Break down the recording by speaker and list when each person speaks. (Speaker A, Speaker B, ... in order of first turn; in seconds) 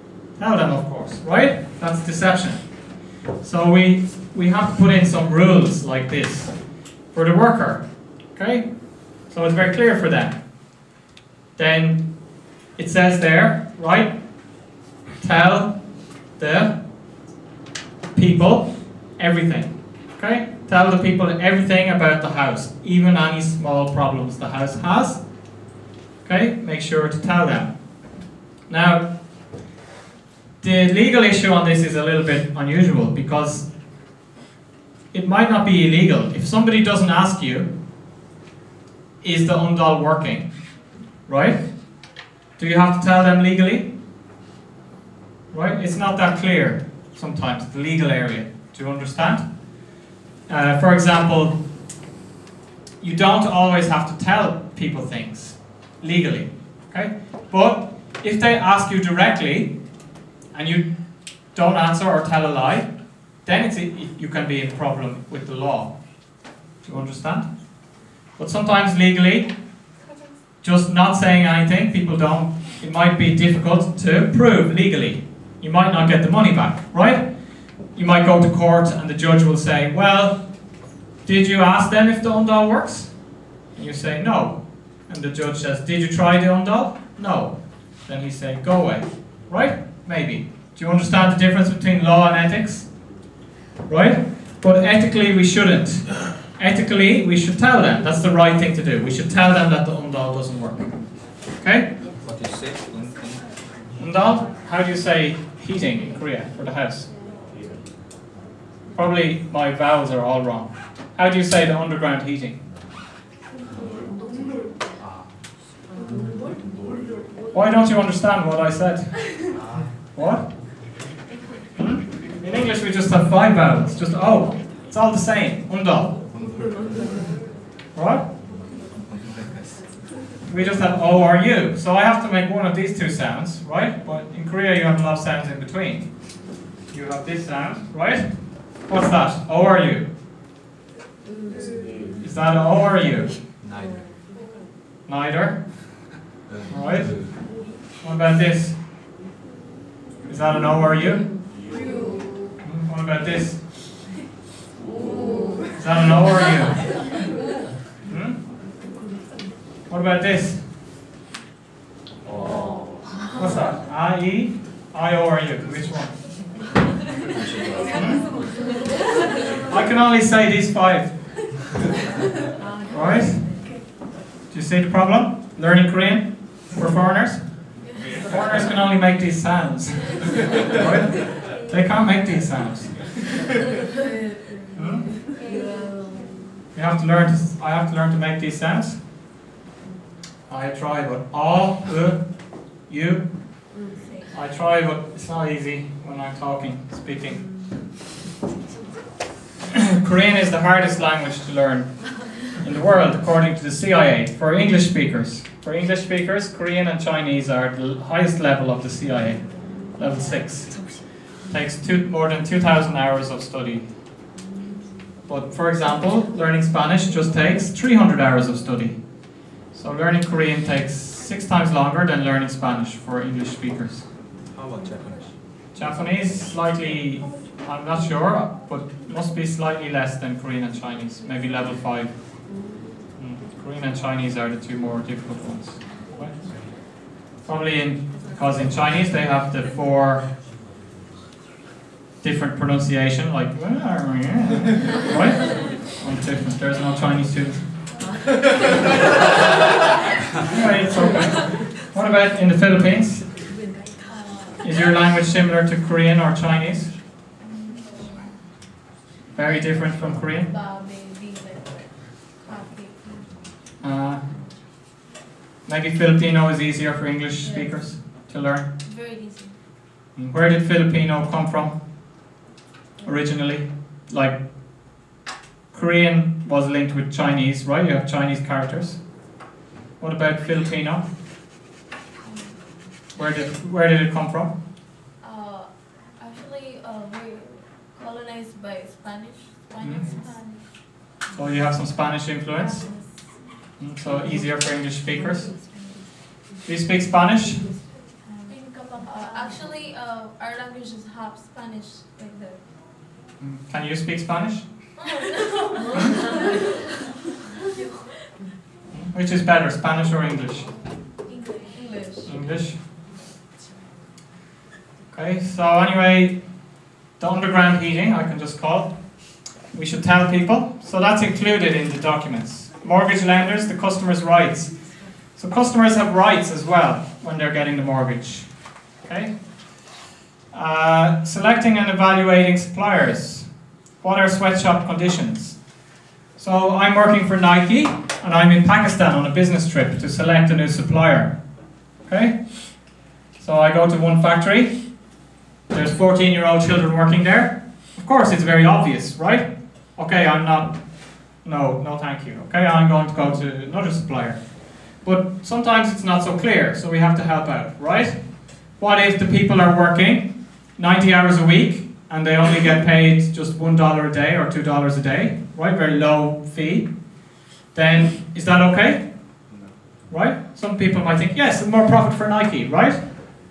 Speaker A: 0.4-10.4, 11.6-14.2, 15.2-16.8, 18.1-25.2, 26.2-28.0, 28.7-29.1, 30.6-33.7, 35.1-37.7, 39.2-40.5, 41.2-43.9, 45.5-49.5, 50.5-51.5, 53.0-59.7, 60.5-65.9, 66.8-67.5, 68.3-69.5, 70.6-80.6, 81.2-93.0, 93.8-101.9, 104.0-107.1, 108.9-112.6, 117.5-119.3, 120.1-120.5, 121.8-126.1, 127.9-128.3, 130.4-136.3, 136.9-140.1, 142.2-143.3, 145.1-145.7, 146.7-147.5, 148.0-148.8, 150.2-151.3, 152.6-153.6, 155.8-156.9, 158.1-158.4, 159.9-160.6, 163.3-166.2, 167.9-168.2, 169.7-171.1, 172.9-173.6, 174.5-183.1, 184.8-185.1, 186.8-189.0, 190.5-193.7, 194.3-197.5, 199.9-213.9, 215.3-219.1, 219.7-224.1, 225.8-232.1, 233.2-240.2, 242.2-247.7, 250.5-253.4, 254.6-256.9, 259.3-260.5, 263.8-264.2, 265.6-268.7, 270.1-271.8, 273.0-274.4, 275.7-279.1, 280.0-281.1, 283.1-284.5, 289.8-290.1, 291.3-292.9, 293.8-295.5, 296.6-297.7, 303.4-304.6, 308.9-310.7, 312.2-312.8, 315.1-316.6, 317.2-328.5, 329.0-329.4, 330.5-335.6, 336.4-341.4, 342.0-345.1, 345.7-367.1, 367.7-369.1, 370.1-373.2
Speaker B: 102.2-103.6, 126.3-126.6, 129.0-129.9, 143.6-144.0, 146.4-147.3, 167.3-168.0, 224.5-225.3, 369.5-369.8
Speaker C: 254.1-254.6, 257.8-258.3, 260.4-263.5, 267.4-267.9, 268.8-269.6, 285.2-290.6, 292.8-293.1, 298.2-302.6, 305.1-306.3, 311.2-312.3